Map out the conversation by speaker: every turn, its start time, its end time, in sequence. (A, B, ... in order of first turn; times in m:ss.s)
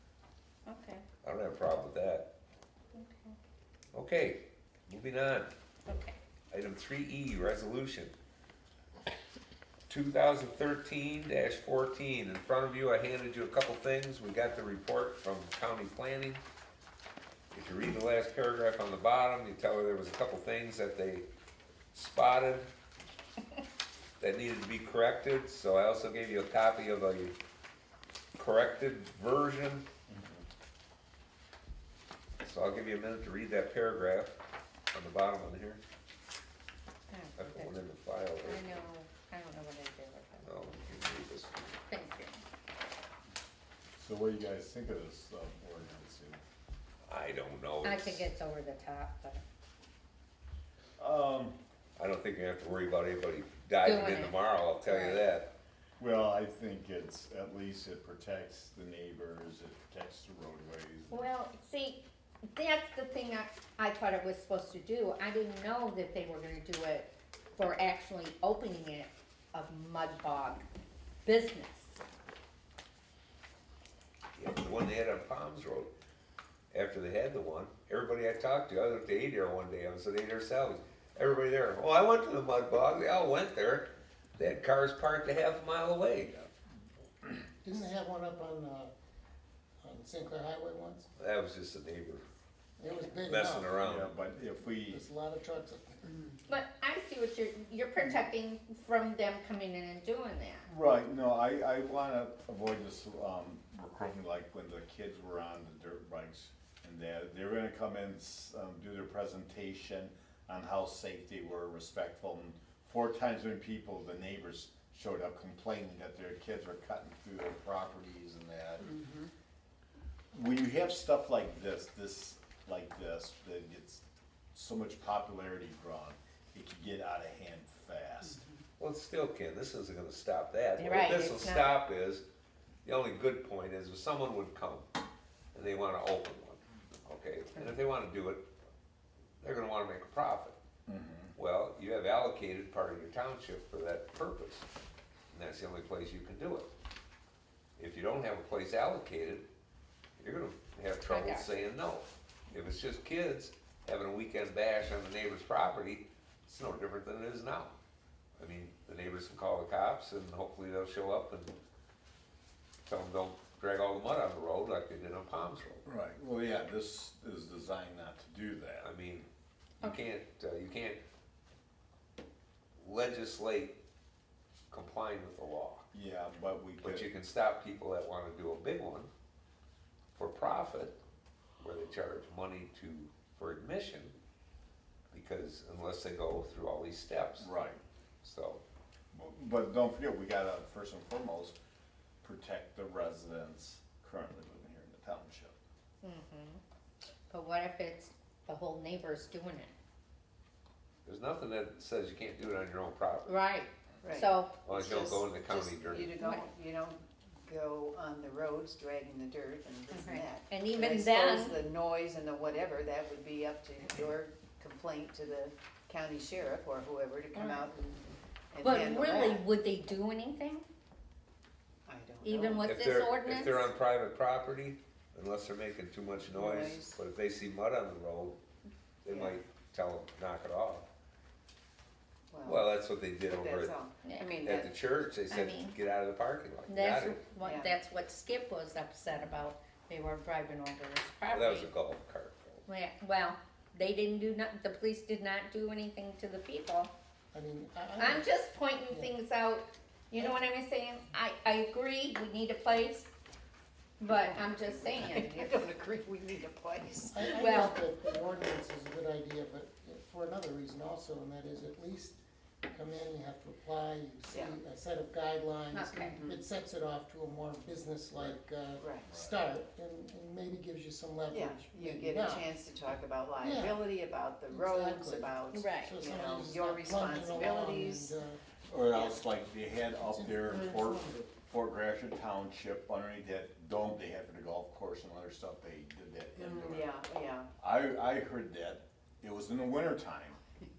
0:00.7-0:01.0 A
0:01.2-0:02.3 B
0:02.9-0:03.4 A
0:03.9-0:05.5 B
0:05.9-0:06.2 A
0:06.5-0:08.1 B
0:09.9-0:16.4 B
0:17.5-0:21.3 B
0:21.9-0:22.7 B
0:24.2-0:27.4 B
0:28.4-0:29.9 B
0:30.1-0:30.4 C
0:32.4-0:34.4 B
0:34.9-0:35.8 B
0:37.1-0:37.8 A
0:37.4-0:38.8 B
0:38.4-0:40.5 A
0:40.4-0:41.8 B
0:41.9-0:42.4 A
0:44.0-0:46.4 C
0:47.1-0:48.3 B
0:47.8-0:49.4 A
0:51.0-0:51.6 C
0:52.0-0:55.5 B
0:53.8-0:55.2 A
0:56.0-1:01.3 C
1:01.1-1:10.6 A
1:11.2-1:11.9 A
1:14.4-1:15.9 B
1:16.7-1:26.4 B
1:27.6-1:28.9 D
1:29.8-1:31.1 D
1:31.2-1:32.2 B
1:32.8-1:33.8 D
1:33.1-1:34.1 B
1:33.8-1:35.0 C
1:34.6-1:36.1 D
1:36.5-1:40.7 A
1:40.7-1:58.9 C
1:58.8-1:59.3 E
2:00.3-2:04.0 C
2:04.5-2:08.4 C
2:08.2-2:08.6 E
2:08.8-2:12.2 B
2:10.8-2:11.7 A
2:12.8-2:14.9 B
2:15.5-2:18.5 B
2:19.4-2:20.6 B
2:20.9-2:21.3 C
2:21.4-2:24.7 B
2:25.3-2:26.7 B
2:27.8-2:29.5 B
2:30.2-2:37.8 B
2:31.1-2:31.5 A
2:38.4-2:41.6 B
2:42.8-2:45.8 B
2:45.9-2:48.9 C
2:48.8-2:49.3 B
2:49.8-2:51.0 B
2:52.8-2:53.8 B
2:54.7-2:55.9 B
2:55.9-2:57.1 C
2:56.8-2:59.1 B
3:00.2-3:01.0 B
3:01.6-3:04.2 B
3:05.1-3:07.5 B
3:07.4-3:07.8 C
3:08.2-3:08.6 B
3:09.1-3:11.6 C
3:12.2-3:15.6 C
3:16.0-3:16.6 A
3:17.3-3:19.7 A
3:21.1-3:23.4 B
3:23.3-3:24.6 A
3:24.0-3:39.4 E
3:24.6-3:26.2 B
3:26.2-3:26.5 A
3:29.9-3:31.6 A
3:37.3-3:37.6 A
3:38.6-3:40.7 A
3:41.9-3:42.7 E
3:42.2-3:43.7 A
3:42.6-3:48.4 B
3:46.3-3:47.0 E
3:49.0-3:50.9 B
3:49.1-3:49.4 E
3:52.3-3:52.7 E
3:52.4-3:53.8 B
3:53.3-3:54.8 E
3:54.0-3:54.4 A
3:54.4-3:57.2 B
3:55.3-3:55.8 A
3:56.7-4:01.7 A
3:57.4-3:57.8 E
4:01.3-4:02.6 B
4:02.7-4:06.9 A
4:07.3-4:08.3 D
4:08.0-4:13.1 A
4:08.9-4:09.1 D
4:14.0-4:15.5 A
4:14.1-4:17.2 E
4:17.1-4:32.5 D
4:17.3-4:17.8 A
4:24.3-4:24.6 E
4:25.7-4:26.2 A
4:26.1-4:26.4 E
4:28.8-4:29.1 E
4:29.1-4:29.4 C
4:31.3-4:38.1 E
4:33.4-4:33.8 D
4:34.5-4:38.4 D
4:35.5-4:36.0 A
4:38.7-4:46.9 C
4:40.0-4:41.2 D
4:46.4-4:47.5 E
4:47.6-4:50.4 C